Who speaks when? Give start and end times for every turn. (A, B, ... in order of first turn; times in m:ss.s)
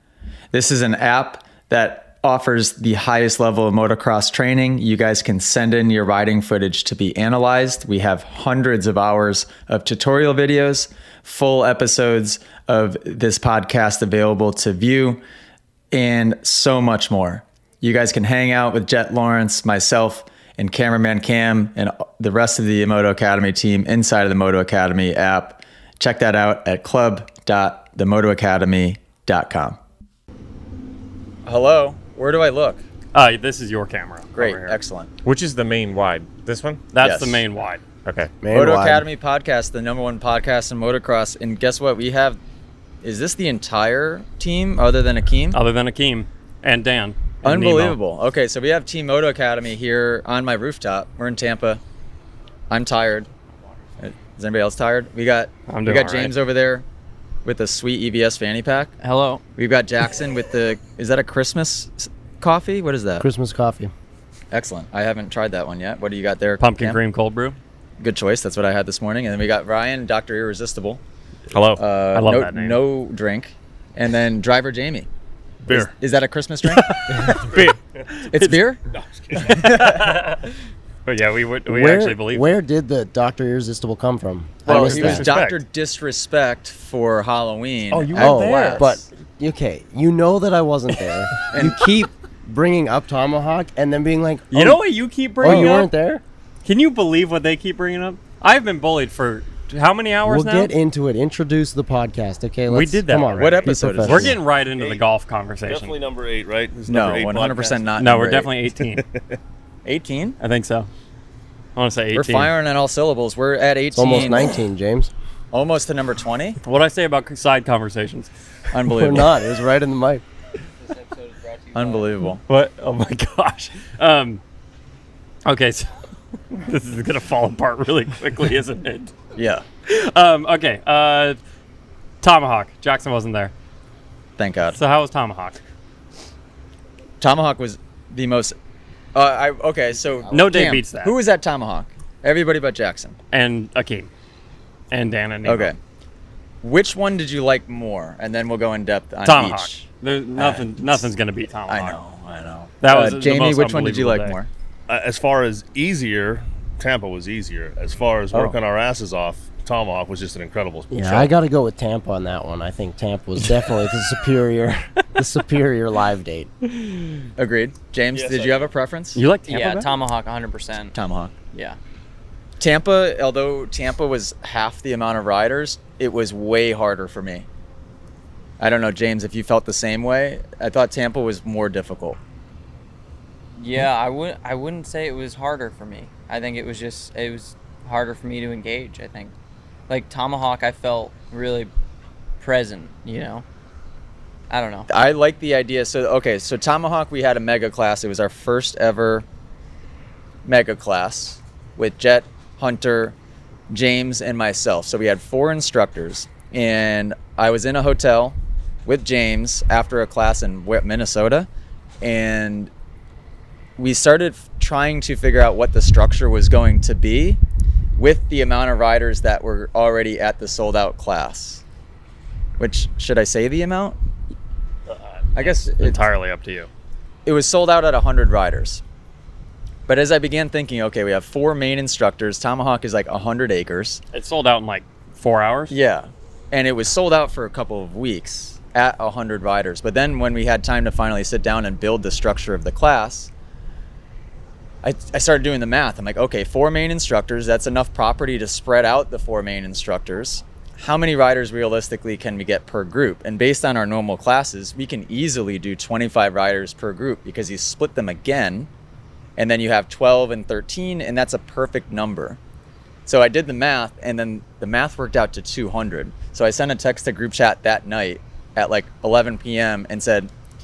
0:00.5-0:15.2 A
0:15.9-0:29.8 A
0:31.4-0:32.8 A
0:33.1-0:34.8 B
0:34.3-0:35.1 A
0:35.2-0:36.8 C
0:36.9-0:37.8 B
0:37.0-0:37.4 A
0:38.0-0:38.3 C
0:38.4-0:39.0 D
0:38.5-0:42.4 A
0:43.0-0:45.6 A
0:45.5-0:48.0 B
0:47.4-0:51.8 A
0:52.7-0:53.3 A
0:54.0-0:56.8 A
0:55.7-0:56.3 B
0:57.4-0:58.9 A
0:59.0-0:59.4 E
0:59.6-1:03.2 A
1:03.2-1:03.9 D
1:04.5-1:07.0 A
1:06.6-1:07.6 B
1:08.0-1:11.0 A
1:11.5-1:12.8 B
1:11.8-1:15.1 A
1:15.7-1:16.9 A
1:16.7-1:18.6 B
1:18.3-1:18.8 A
1:18.9-1:19.5 F
1:19.3-1:20.5 B
1:19.4-1:20.0 A
1:21.0-1:22.5 B
1:21.7-1:25.3 D
1:24.6-1:25.6 B
1:24.6-1:29.0 A
1:27.9-1:28.7 B
1:28.1-1:34.8 D
1:28.2-1:28.8 C
1:31.5-1:31.8 A
1:34.5-1:35.9 B
1:35.4-1:36.2 D
1:35.4-1:35.8 A
1:36.6-1:40.7 B
1:40.2-1:44.4 D
1:42.7-1:46.0 B
1:43.4-1:44.3 A
1:44.7-1:45.0 F
1:45.7-1:47.9 F
1:46.9-1:48.5 A
1:48.0-1:49.0 B
1:48.9-1:49.4 F
1:49.8-1:50.4 A
1:50.4-1:50.9 B
1:51.8-1:52.5 B
1:52.1-1:54.6 A
1:53.9-1:55.1 D
1:55.5-1:56.6 A
1:56.6-1:58.3 B
1:58.7-1:59.4 A
1:58.8-2:00.2 D
2:00.8-2:02.1 E
2:01.7-2:02.4 A
2:02.5-2:04.4 B
2:05.4-2:05.9 B
2:06.5-2:09.1 B
2:09.4-2:09.6 A
2:09.9-2:11.4 B
2:12.2-2:13.5 B
2:14.4-2:14.8 A
2:14.8-2:15.6 B
2:17.2-2:18.6 A
2:19.1-2:23.2 A
2:20.3-2:21.1 B
2:23.3-2:24.1 B
2:24.9-2:25.7 B
2:25.4-2:25.8 A
2:26.6-2:29.8 A
2:29.2-2:32.0 B
2:30.4-2:31.0 A
2:31.7-2:34.5 A
2:32.8-2:34.4 B
2:34.9-2:41.3 F
2:40.9-2:46.5 D
2:47.4-2:49.2 A
2:48.1-2:48.7 F
2:49.2-2:49.9 B
2:49.5-2:51.0 E
2:50.9-2:51.3 A
2:51.5-2:51.8 E
2:52.6-2:57.4 A
2:58.6-3:02.2 A
3:03.6-3:09.3 E
3:09.9-3:11.7 E
3:12.4-3:13.4 E
3:14.5-3:14.9 E
3:14.9-3:19.2 A
3:20.4-3:23.1 A
3:23.7-3:31.5 A
3:32.0-3:32.7 A
3:33.8-3:37.4 A
3:38.0-3:41.6 A
3:42.6-3:44.0 A
3:45.3-3:46.7 B
3:45.3-3:46.0 A
3:47.2-3:48.8 A
3:49.9-3:54.0 A
3:54.1-3:55.7 B
3:55.7-4:03.3 A
4:04.8-4:18.7 A
4:19.4-4:22.4 A
4:23.0-4:30.3 A